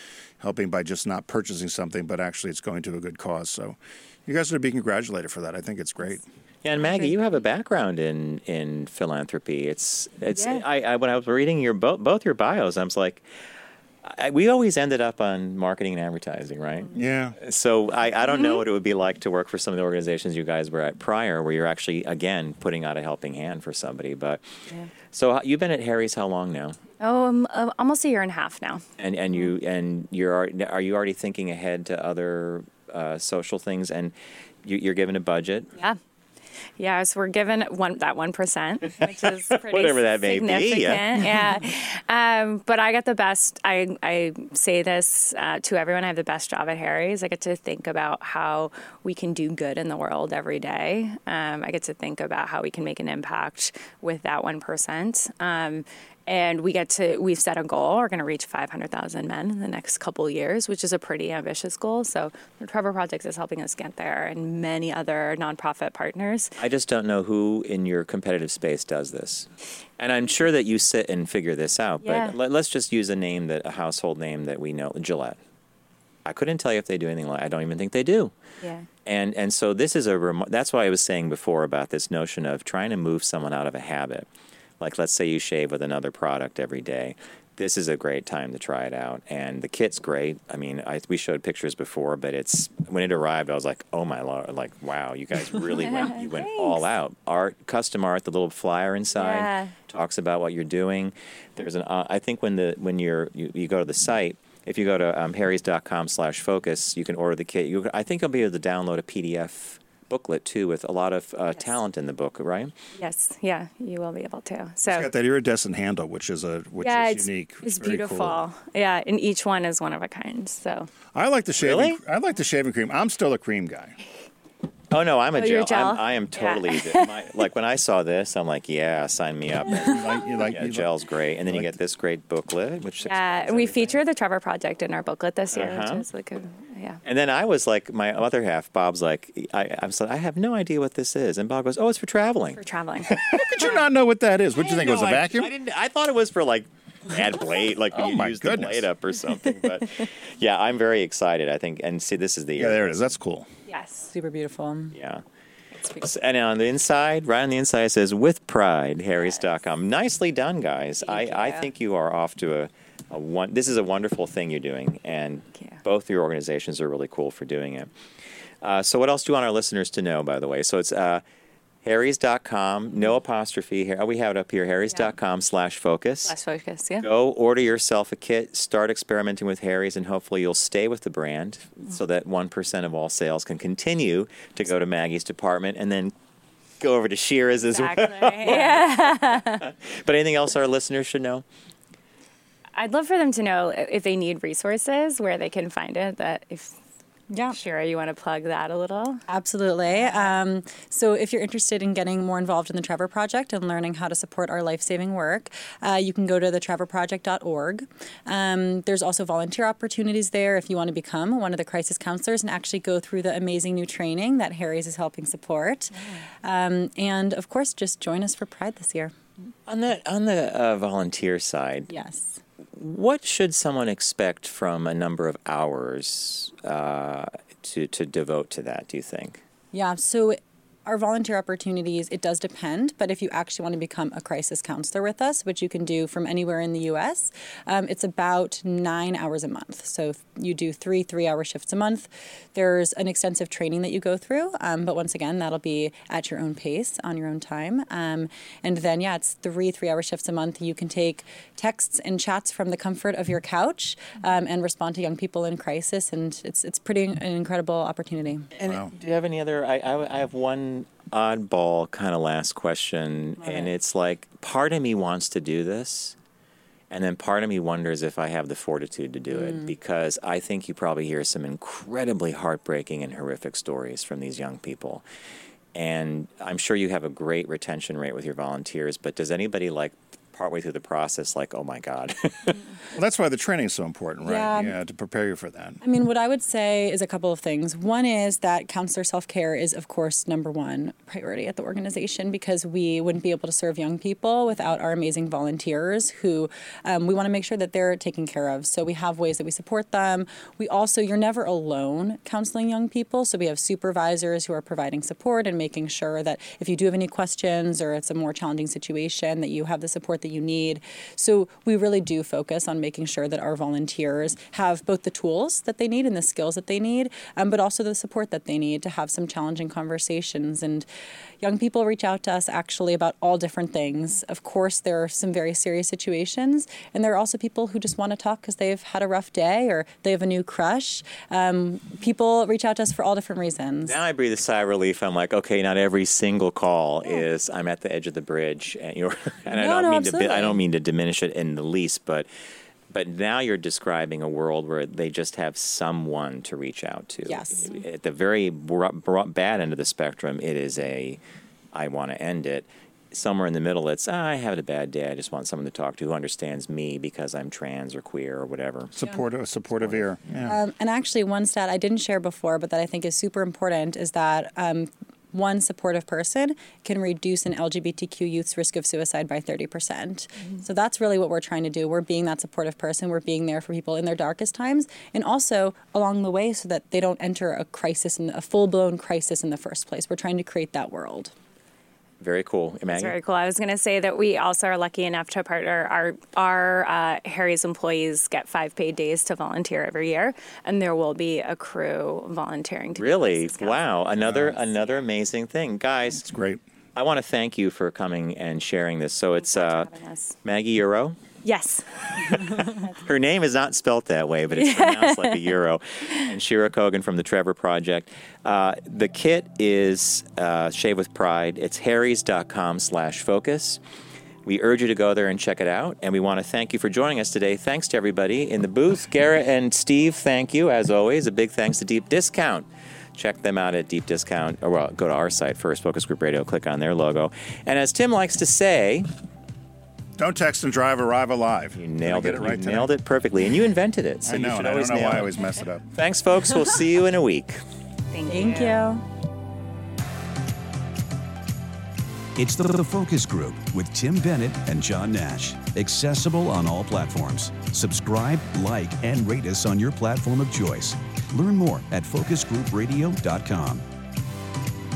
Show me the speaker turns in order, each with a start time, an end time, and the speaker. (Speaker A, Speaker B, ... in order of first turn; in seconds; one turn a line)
Speaker A: 0.4-6.2
Speaker B: 6.6-13.2
Speaker B: 14.0-26.8
Speaker A: 16.9-17.4
Speaker C: 18.2-18.6
Speaker C: 27.0-28.8
Speaker B: 29.0-35.7
Speaker C: 36.8-66.5
Speaker B: 39.0-41.5
Speaker B: 66.6-75.4
Speaker C: 72.0-72.3
Speaker B: 76.2-78.3
Speaker C: 78.6-78.9
Speaker B: 79.0-84.3
Speaker B: 84.8-112.7
Speaker C: 95.8-96.9
Speaker C: 99.1-99.7
Speaker C: 112.9-115.1
Speaker A: 114.9-118.4
Speaker C: 116.8-120.9
Speaker A: 121.1-124.0
Speaker B: 121.6-122.0
Speaker B: 124.9-134.0
Speaker C: 125.3-127.3
Speaker A: 129.7-130.9
Speaker A: 131.5-131.8
Speaker C: 133.0-137.0
Speaker B: 135.5-136.0
Speaker B: 137.0-143.8
Speaker C: 142.6-143.2
Speaker A: 143.1-145.5
Speaker B: 144.5-152.9
Speaker A: 147.9-148.9
Speaker A: 152.6-153.5
Speaker C: 153.7-154.1
Speaker D: 154.1-154.9
Speaker B: 154.9-155.2
Speaker B: 155.9-167.9
Speaker C: 161.0-161.7
Speaker B: 168.6-171.2
Speaker B: 171.8-176.3
Speaker C: 176.2-177.1
Speaker B: 177.0-186.1
Speaker B: 186.8-191.4
Speaker C: 187.7-189.7
Speaker C: 192.7-196.8
Speaker D: 197.3-197.6
Speaker C: 197.4-199.2
Speaker D: 199.3-219.1
Speaker C: 199.9-200.3
Speaker B: 219.7-221.9
Speaker D: 221.9-222.4
Speaker B: 222.7-229.4
Speaker D: 229.7-258.5
Speaker B: 258.6-266.1
Speaker A: 258.6-258.9
Speaker D: 263.4-263.7
Speaker B: 266.9-275.0
Speaker D: 269.3-269.7
Speaker B: 275.7-282.6
Speaker A: 282.9-285.8
Speaker D: 284.2-284.8
Speaker D: 285.8-320.9
Speaker D: 321.4-334.0
Speaker B: 333.8-342.3
Speaker D: 339.4-340.6
Speaker B: 342.9-351.2
Speaker D: 347.2-347.7
Speaker B: 351.7-358.9
Speaker A: 358.9-360.6
Speaker D: 360.4-381.3
Speaker B: 382.2-383.1
Speaker C: 382.9-395.1
Speaker B: 392.9-396.3
Speaker A: 394.2-394.6
Speaker A: 396.2-396.6
Speaker B: 396.9-399.9
Speaker C: 399.4-400.4
Speaker B: 400.4-401.2
Speaker C: 401.4-402.6
Speaker B: 402.1-413.8
Speaker C: 404.6-405.5
Speaker B: 414.4-429.1
Speaker A: 430.2-432.9
Speaker B: 431.8-435.3
Speaker A: 434.2-435.8
Speaker B: 435.9-437.6
Speaker C: 438.1-438.9
Speaker D: 438.3-439.0
Speaker E: 442.4-453.8